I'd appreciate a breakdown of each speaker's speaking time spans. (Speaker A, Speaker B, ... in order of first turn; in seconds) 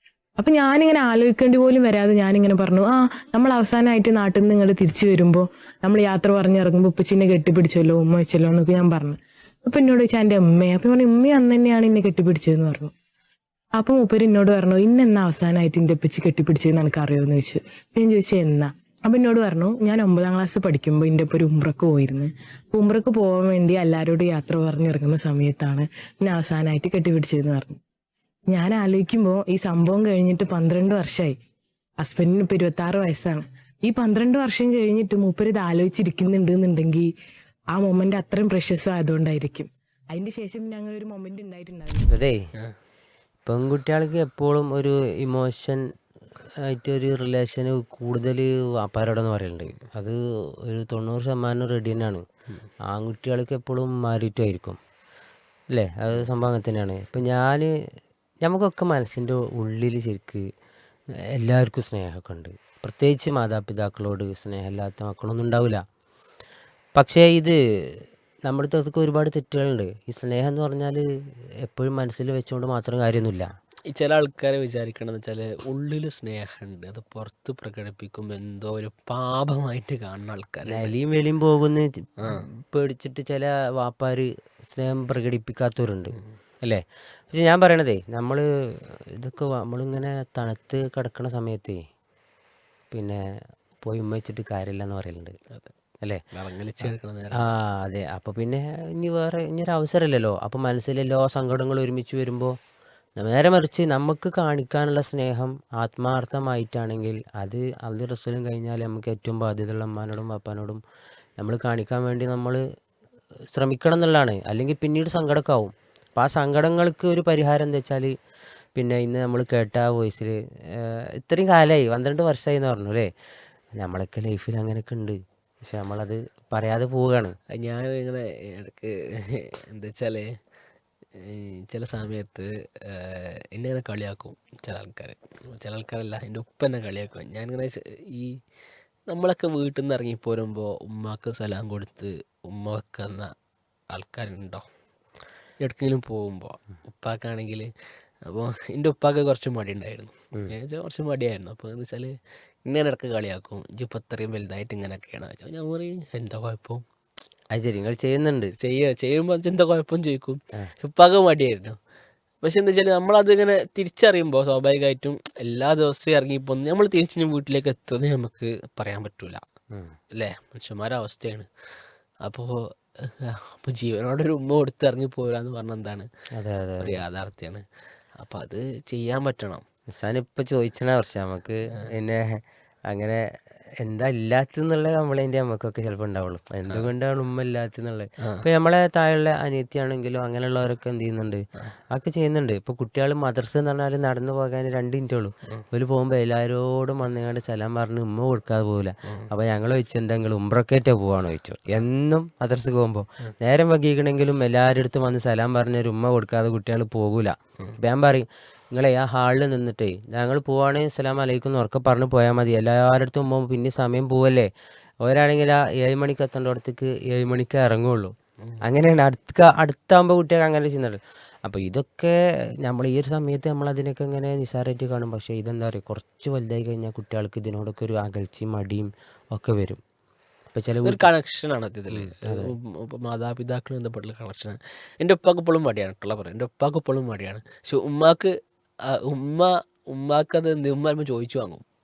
Speaker A: 0.4-12.9, 13.8-27.8, 28.5-31.3, 32.0-37.1, 37.7-42.1
Speaker B: 42.1-42.4, 43.4-45.8, 46.6-52.2, 52.9-54.8, 55.7-57.7, 58.4-60.4, 61.4-65.8, 67.0-71.0, 71.6-73.5, 80.7-91.8, 92.9-93.2, 93.8-95.3, 96.8-102.5, 103.2-110.8, 111.4-112.6, 113.5-118.1, 118.7-123.1, 123.8-127.3, 157.5-158.5, 169.7-170.0, 176.3-177.0, 179.9-183.2, 183.8-214.5, 215.0-229.8, 230.5-231.1, 231.9-232.5
Speaker C: 73.9-80.9, 96.3-97.5, 127.5-130.2, 131.2-138.3, 139.1-143.3, 143.9-144.6, 145.6-147.7, 148.2-152.1, 152.6-156.8, 158.6-161.8, 162.4-169.4, 170.1-171.5, 172.2-176.1, 176.8-177.6, 178.2-179.6, 230.8-238.3, 238.9-241.6